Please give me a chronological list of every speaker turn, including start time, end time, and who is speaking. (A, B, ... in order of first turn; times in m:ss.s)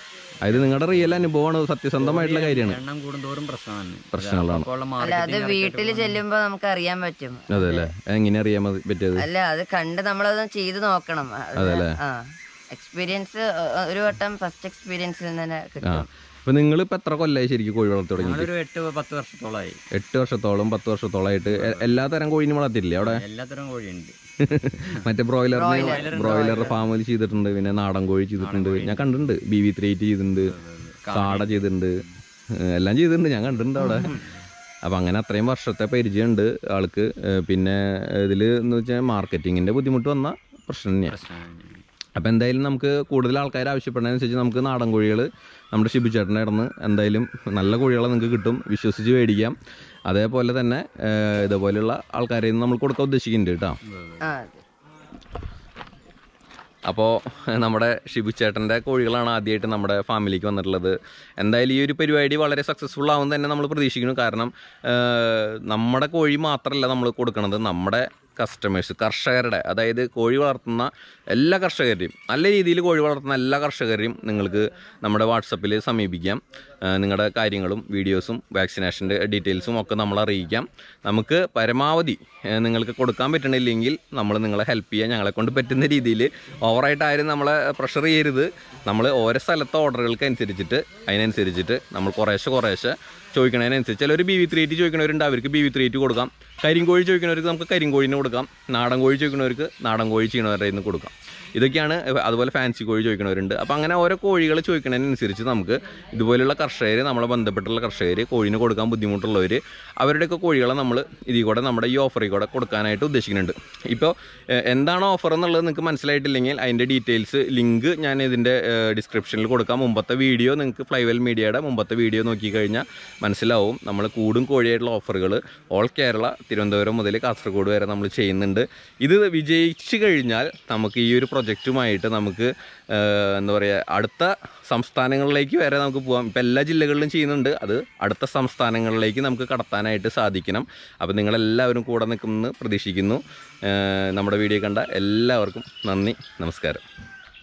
0:00.4-0:02.8 A
0:00.4-0:01.3 B
0:02.0-0:06.2 B
0:04.1-0:04.7 A
0:05.0-0:07.9 C
0:07.5-0:09.2 A
0:09.2-0:16.1 C
0:11.6-0:11.9 A
0:15.8-0:18.5 A
0:18.2-0:19.8 B
0:19.9-0:23.2 A
0:21.4-0:22.0 B
0:23.0-0:24.2 B
0:24.4-0:30.5 A
0:25.5-0:26.6 C
0:25.7-0:26.8 B
0:28.4-0:29.2 B
0:30.4-0:32.1 B
0:31.1-0:34.2 A
0:33.8-0:34.4 B
0:34.8-0:41.2 A
0:41.0-0:41.8 B
0:42.2-0:53.8 A
0:53.9-0:54.2 B
0:54.2-0:54.6 C
0:56.9-2:26.8 A